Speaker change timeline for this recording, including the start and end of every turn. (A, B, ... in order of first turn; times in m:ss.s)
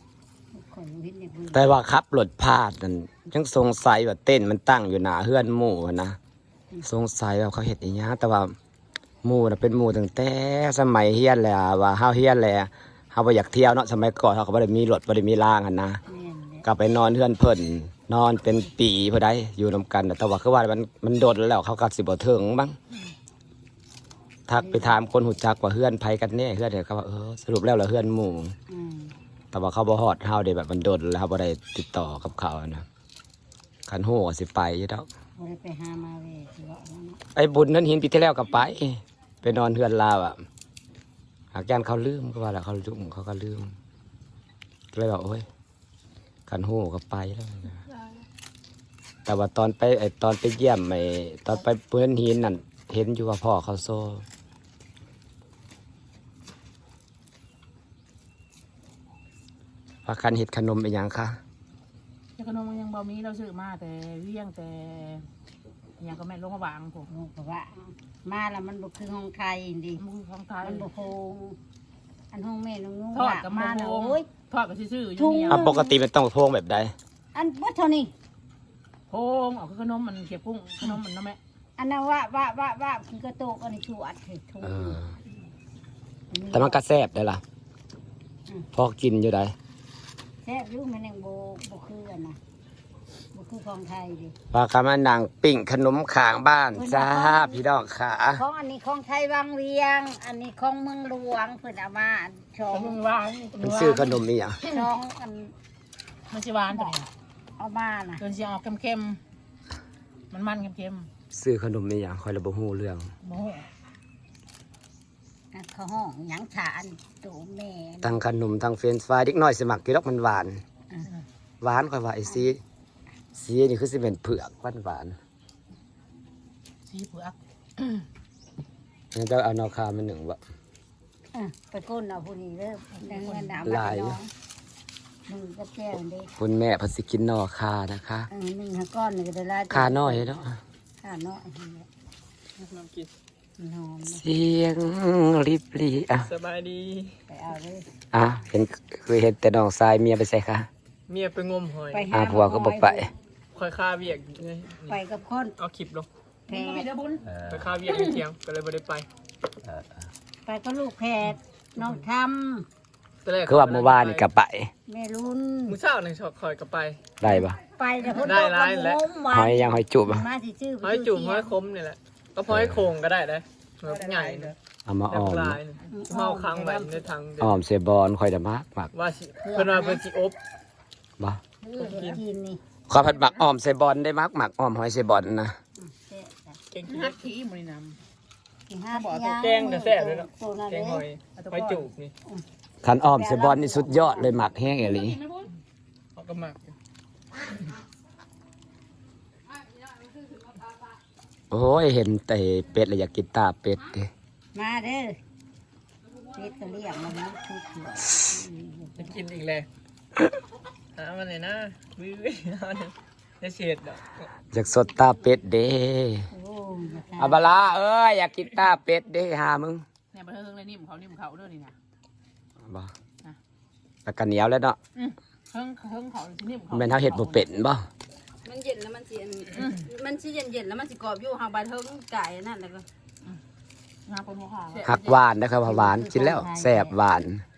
0:00.5-0:01.8 A
0:01.5-0:06.2 B
0:06.8-0:08.6 B
0:09.2-0:16.0 B
0:16.1-0:16.7 A
0:16.6-0:22.8 B
0:24.5-0:28.6 B
0:24.6-0:25.1 A
0:28.7-0:29.1 A
0:29.5-0:32.9 B
0:33.9-0:35.1 B
0:35.4-0:37.2 A
0:37.4-0:40.4 B
0:41.5-0:43.7 B
0:44.9-0:45.4 B
0:46.5-0:47.8 B
0:49.3-0:54.2 B
1:00.1-1:01.4 B
1:02.4-1:05.3 C
1:06.0-1:07.1 C
1:07.1-1:10.0 A
1:10.0-1:10.9 C
1:10.6-1:11.6 A
1:12.3-1:14.3 A
1:13.1-1:15.7 C
1:15.2-1:16.0 A
1:15.5-1:16.9 B
1:17.3-1:18.1 A
1:19.1-1:21.4 C
1:21.8-1:25.0 A
1:24.6-1:25.1 B
1:26.3-1:26.8 A
1:26.5-1:27.4 B
1:28.7-1:29.6 B
1:30.4-1:32.4 A
1:33.3-1:34.4 A
1:34.5-1:38.4 B
1:36.7-1:37.6 A
1:38.4-1:43.0 A
1:42.7-1:44.2 C
1:43.6-1:44.6 B
1:44.6-1:45.5 A
1:46.3-1:47.1 C
1:46.7-1:47.0 A
1:47.6-1:48.3 A
1:48.2-1:49.2 C
1:50.3-1:51.1 C
1:51.3-1:53.1 B
1:53.2-1:53.7 C
1:55.5-1:58.2 A
1:58.0-2:00.6 B
2:01.6-2:02.6 B
2:03.4-2:05.2 B
2:06.9-2:08.0 C
2:09.1-2:10.4 B
2:11.3-2:14.3 A
2:12.9-2:13.6 C
2:13.6-2:14.2 B
2:15.3-2:16.3 A
2:16.4-2:18.3 B
2:18.3-2:20.4 A
2:19.7-2:20.6 B
2:21.0-2:21.9 A
2:22.6-2:23.1 D
2:23.6-2:24.2 A
2:24.1-2:26.3 B
2:26.2-2:27.2 D
2:27.3-2:27.9 A
2:28.1-2:30.7 B
2:31.1-2:32.1 D
2:31.9-2:33.1 A
2:32.1-2:33.1 B
2:33.5-2:35.0 D
2:34.8-2:35.6 A
2:35.6-2:36.1 D
2:36.5-2:36.9 A
2:36.5-2:37.3 C
2:37.4-2:39.1 D
2:40.4-2:42.7 A
2:43.2-2:44.3 D
2:43.4-2:44.7 B
2:44.9-2:45.8 A
2:45.7-2:47.0 D
2:47.2-2:47.6 B
2:47.2-2:51.5 A
2:48.2-2:49.0 D
2:49.3-2:50.3 B
2:50.8-2:54.6 D
2:52.5-2:52.9 B
2:53.9-2:54.5 C
2:54.9-2:55.6 B
2:55.1-2:57.6 D
2:55.9-2:57.0 A
2:57.4-2:58.9 B
2:58.9-3:00.4 D
2:59.4-3:00.0 A
3:01.6-3:02.6 A
3:01.8-3:02.2 D
3:02.9-3:05.6 B
3:05.8-3:06.6 A
3:06.7-3:07.2 D
3:06.9-3:08.0 C
3:08.7-3:11.0 A
3:08.9-3:09.4 C
3:09.4-3:12.1 D
3:11.4-3:11.9 C
3:12.8-3:15.2 B
3:13.0-3:14.4 A
3:15.0-3:15.5 C
3:16.2-3:16.8 D
3:21.5-3:24.1 B
3:24.5-3:25.2 A
3:26.3-3:29.2 A
3:29.0-3:29.7 D
3:31.0-3:34.3 D
3:34.5-3:36.3 B
3:36.3-3:37.4 A
3:37.2-3:39.8 B
3:40.1-3:41.8 C
3:42.7-3:42.9 B
3:44.0-3:44.8 B
3:45.0-3:47.4 C
3:46.7-3:47.9 B
3:48.4-3:52.8 E
3:49.6-3:49.8 C
3:54.1-3:54.9 C
3:54.7-3:55.2 E
3:54.8-3:57.4 B
3:55.6-3:57.0 A